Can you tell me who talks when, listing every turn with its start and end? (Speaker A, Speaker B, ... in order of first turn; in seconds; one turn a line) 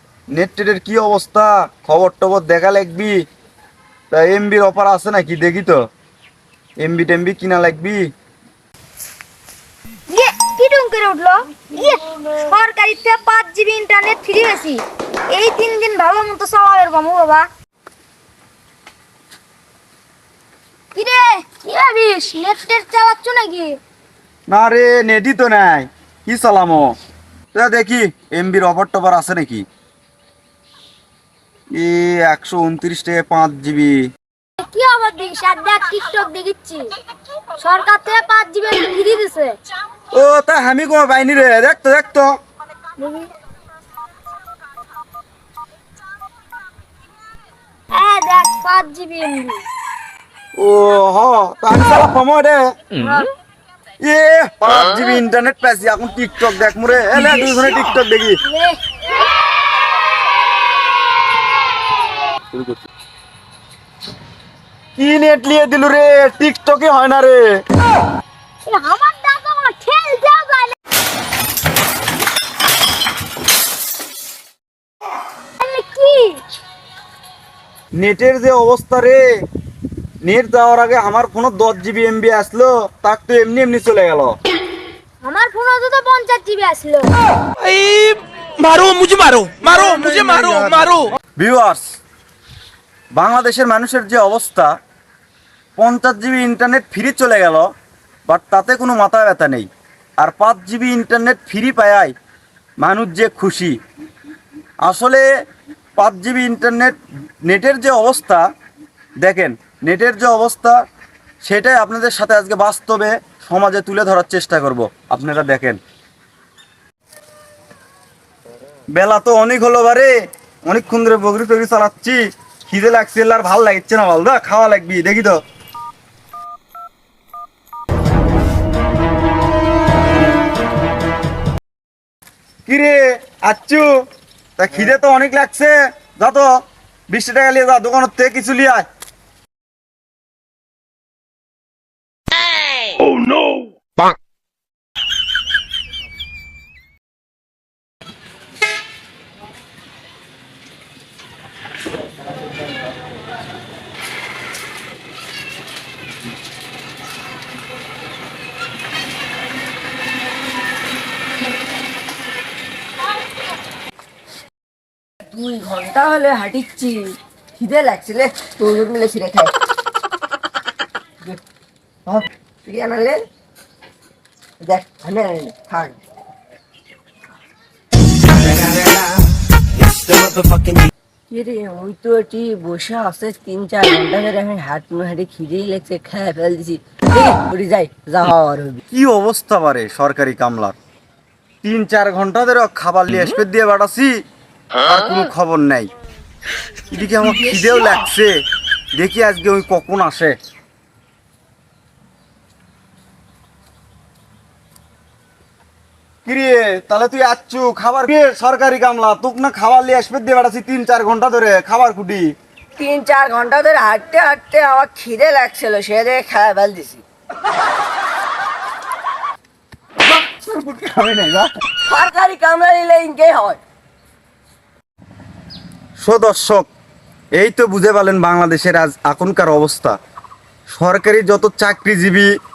Speaker A: 0.3-3.2
Speaker A: 4.1-5.8
Speaker A: 6.8-8.1
Speaker B: 10.1-17.4
Speaker B: 20.9-23.8
Speaker A: 24.5-26.9
Speaker A: 27.5-29.6
Speaker A: 31.7-34.0
Speaker B: 34.6-36.9
Speaker B: 37.6-39.5
Speaker A: 40.1-42.3
Speaker B: 43.0-43.3
Speaker B: 47.9-49.6
Speaker A: 50.6-52.6
Speaker B: 53.0-53.3
Speaker A: 54.0-58.4
Speaker B: 58.4-59.6
Speaker A: 62.5-62.8
Speaker A: 65.0-67.5
Speaker B: 68.7-70.7
Speaker B: 75.6-76.4
Speaker A: 78.0-79.2
Speaker A: 80.2-84.3
Speaker B: 85.2-87.1
Speaker C: 87.6-91.1
Speaker A: 91.4-91.8
Speaker A: 93.2-94.7
Speaker A: 95.8-97.7
Speaker A: 98.3-99.7
Speaker A: 100.2-102.1
Speaker A: 102.8-103.7
Speaker A: 104.8-105.2
Speaker A: 106.0-108.4
Speaker A: 109.2-110.7
Speaker A: 111.4-115.8
Speaker A: 118.9-120.1
Speaker A: 120.7-125.4
Speaker A: 132.7-133.9
Speaker A: 134.6-136.5
Speaker A: 137.1-138.8
Speaker D: 165.3-169.5
Speaker D: 172.1-173.2
Speaker D: 174.6-176.0
Speaker C: 179.9-180.7
Speaker D: 181.3-188.8
Speaker A: 188.9-190.7
Speaker A: 191.6-194.1
Speaker A: 194.8-195.9
Speaker A: 196.9-198.3
Speaker A: 198.9-200.3
Speaker A: 206.2-212.3
Speaker D: 212.8-217.0
Speaker A: 220.3-221.5
Speaker D: 221.8-223.6
Speaker A: 226.0-226.7
Speaker A: 227.4-229.9
Speaker A: 230.7-232.3